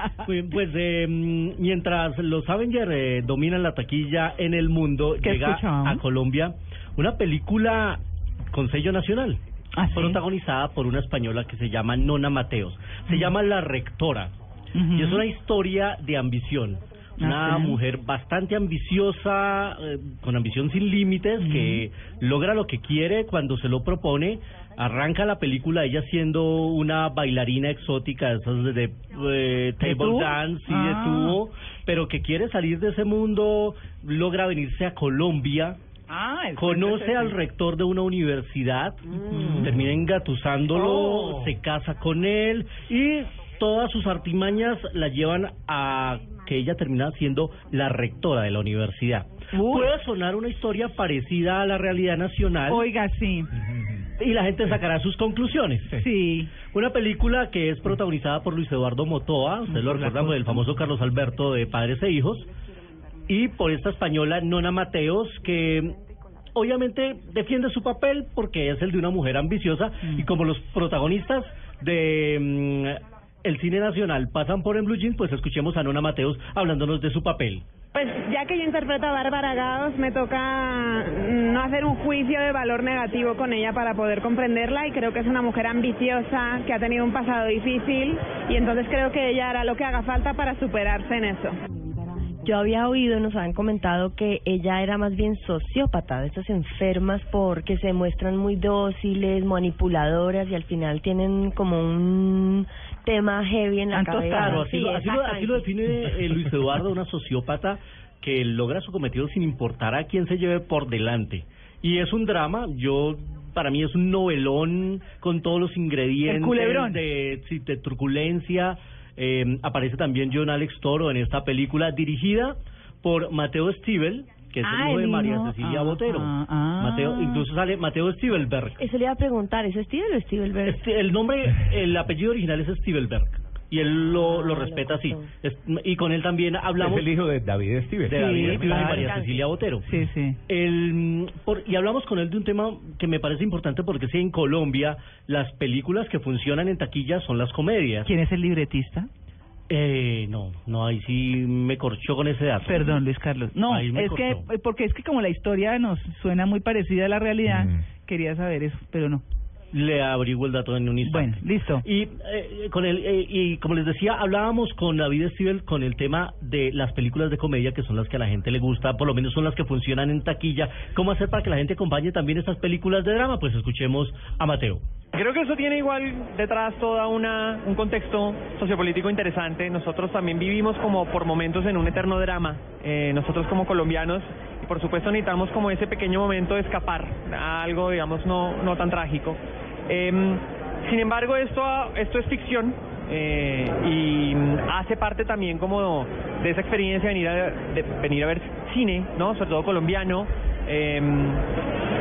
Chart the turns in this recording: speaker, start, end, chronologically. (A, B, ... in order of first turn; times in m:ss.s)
0:00.2-0:09.4 A
0:05.2-0:06.0 B
0:09.8-0:10.2 B
0:09.9-0:14.3 A
0:13.1-0:13.3 B
0:14.8-0:15.3 B
0:14.9-0:35.8 A
0:17.2-0:17.8 B
0:21.4-0:21.9 B
0:29.8-0:31.4 B
0:36.1-0:37.4 B
0:36.6-0:52.9 A
0:39.2-0:39.7 B
0:49.5-0:49.9 B
0:52.7-0:53.5 B
0:54.2-0:56.0 A
0:55.9-0:56.6 B
0:56.6-1:02.5 A
0:59.7-1:00.7 B
1:03.3-1:06.0 A
1:06.6-1:17.6 A
1:10.0-1:10.3 B
1:17.9-1:31.5 C
1:32.4-1:45.7 D
1:43.9-1:44.7 B
1:44.3-2:08.9 A
1:56.2-1:57.0 B
2:04.6-2:07.5 B
2:08.8-2:10.8 D
2:10.6-2:17.1 A
2:14.0-2:15.3 D
2:16.8-2:18.8 E
2:18.0-2:19.9 A
2:18.1-2:19.1 B
2:18.6-2:19.5 D
2:19.8-2:20.4 B
2:20.5-2:28.1 A
2:28.1-2:29.1 B
2:29.7-2:32.9 A
2:32.6-2:39.2 B
2:33.6-2:34.5 A
2:39.7-2:54.8 A
2:41.0-2:41.8 B
2:55.1-3:21.4 F